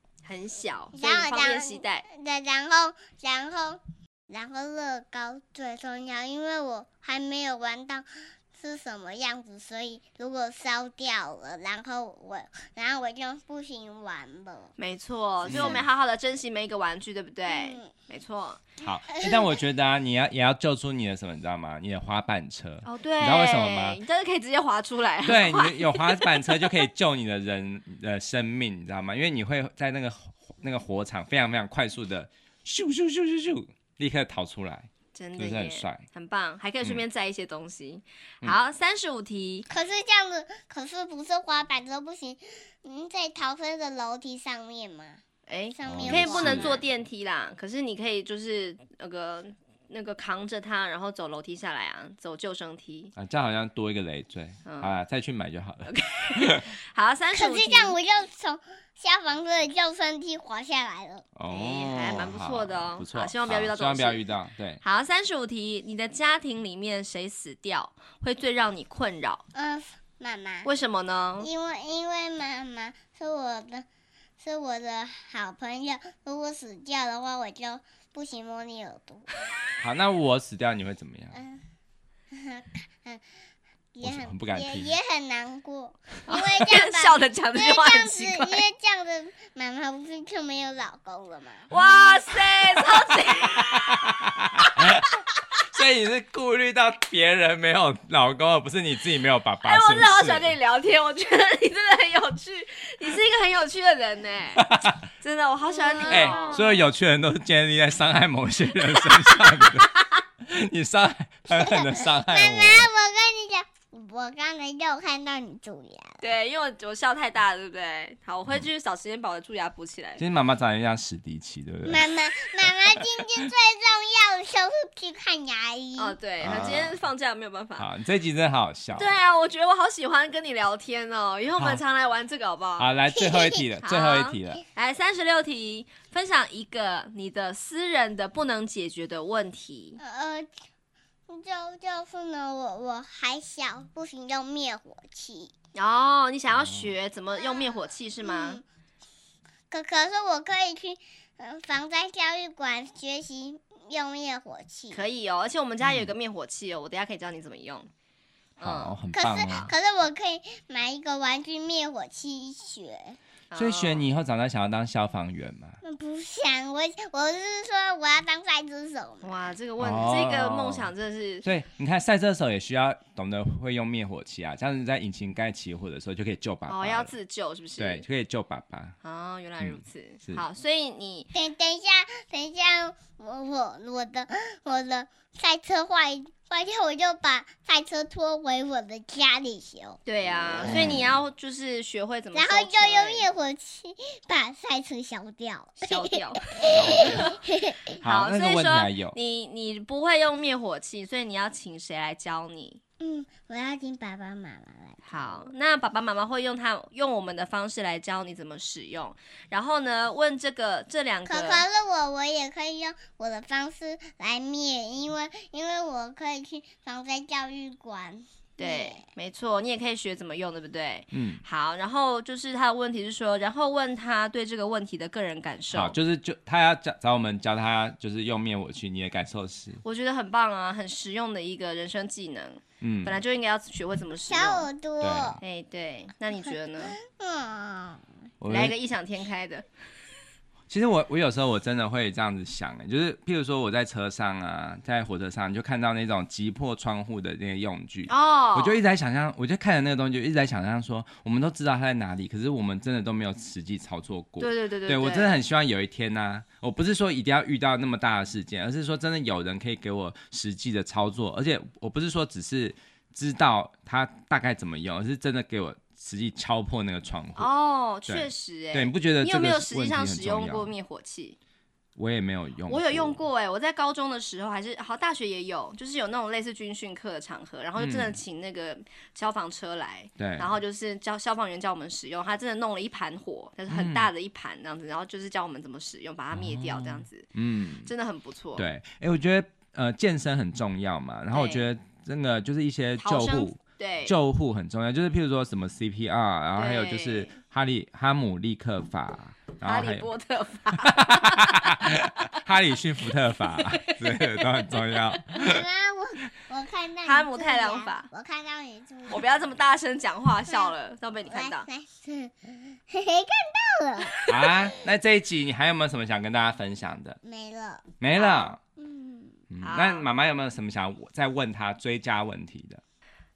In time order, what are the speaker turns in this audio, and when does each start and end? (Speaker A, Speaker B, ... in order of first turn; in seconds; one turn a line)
Speaker A: 0.2-2.1
Speaker B: 0.9-14.8
Speaker A: 14.8-18.6
Speaker C: 15.5-15.8
Speaker B: 15.5-15.8
Speaker B: 17.5-17.9
Speaker C: 18.8-24.0
Speaker B: 19.1-19.4
Speaker A: 22.8-26.8
Speaker C: 25.2-36.0
Speaker A: 35.1-39.7
Speaker B: 39.7-45.2
Speaker A: 45.5-53.1
Speaker B: 45.8-46.9
Speaker C: 45.9-46.7
Speaker C: 53.2-56.7
Speaker A: 54.6-55.0
Speaker A: 55.9-58.0
Speaker B: 57.3-61.3
Speaker C: 61.4-64.8
Speaker A: 61.5-64.2
Speaker A: 64.8-69.4
Speaker B: 69.5-70.7
Speaker A: 70.6-71.5
Speaker B: 71.4-73.9
Speaker B: 74.4-79.3
Speaker C: 79.8-81.3
Speaker B: 81.3-81.6
Speaker B: 82.3-83.2
Speaker B: 84.0-91.7
Speaker C: 84.0-84.9
Speaker A: 86.3-88.6
Speaker A: 91.7-94.1
Speaker C: 93.7-95.1
Speaker C: 95.6-100.5
Speaker A: 99.6-104.7
Speaker C: 104.6-105.0
Speaker A: 105.2-106.7
Speaker B: 105.7-106.7
Speaker C: 106.1-109.9
Speaker A: 109.0-110.2
Speaker C: 110.4-112.9
Speaker B: 111.5-116.2
Speaker A: 116.2-120.2
Speaker C: 120.2-123.5
Speaker B: 121.8-126.2
Speaker A: 126.0-127.9
Speaker C: 126.4-127.0
Speaker C: 127.8-129.1
Speaker A: 129.0-132.9
Speaker C: 132.8-134.6
Speaker B: 133.2-133.6
Speaker A: 133.8-140.0
Speaker B: 140.0-140.5
Speaker B: 141.3-145.5
Speaker A: 145.7-148.6
Speaker C: 146.5-146.9
Speaker B: 147.3-148.6
Speaker B: 149.7-155.1
Speaker A: 154.9-157.9
Speaker C: 155.8-156.1
Speaker A: 158.6-159.7
Speaker C: 158.6-159.7
Speaker B: 159.1-163.2
Speaker A: 163.5-164.1
Speaker C: 163.6-165.8
Speaker B: 165.8-169.3
Speaker A: 169.2-171.5
Speaker C: 169.8-170.9
Speaker C: 171.4-177.1
Speaker A: 176.7-178.1
Speaker C: 177.8-178.9
Speaker A: 179.0-181.3
Speaker C: 179.6-180.4
Speaker B: 181.3-190.0
Speaker A: 190.1-193.3
Speaker C: 190.6-191.1
Speaker B: 192.3-198.0
Speaker A: 195.8-197.4
Speaker C: 196.7-197.4
Speaker C: 198.0-199.2
Speaker A: 198.0-202.8
Speaker B: 203.0-205.5
Speaker A: 205.1-211.6
Speaker B: 211.2-219.0
Speaker A: 218.6-226.0
Speaker C: 221.1-221.4
Speaker C: 225.7-229.8
Speaker A: 229.8-234.7
Speaker C: 232.8-233.2
Speaker B: 234.3-235.4
Speaker C: 235.0-235.4
Speaker A: 235.4-237.0
Speaker B: 237.0-238.1
Speaker C: 238.4-238.8
Speaker A: 238.5-239.7
Speaker C: 240.7-267.5
Speaker A: 248.1-248.8
Speaker A: 254.4-255.4
Speaker A: 267.4-271.4
Speaker C: 268.1-270.7
Speaker C: 272.0-273.2
Speaker A: 272.7-287.3
Speaker C: 277.8-278.2
Speaker C: 280.2-280.5
Speaker C: 283.7-284.1
Speaker C: 286.3-287.9
Speaker A: 287.9-288.7
Speaker C: 288.6-300.1
Speaker A: 291.3-291.6
Speaker A: 293.0-294.1
Speaker A: 296.6-297.4
Speaker A: 299.6-302.4
Speaker C: 300.8-305.7
Speaker A: 303.5-305.0
Speaker B: 305.3-309.4
Speaker A: 307.0-308.1
Speaker A: 309.1-311.7
Speaker B: 310.5-310.8
Speaker B: 311.3-314.2
Speaker C: 314.3-317.2
Speaker B: 317.2-317.9
Speaker C: 318.0-318.6
Speaker A: 318.1-318.6
Speaker B: 318.8-319.4
Speaker C: 319.5-322.8
Speaker A: 319.6-320.1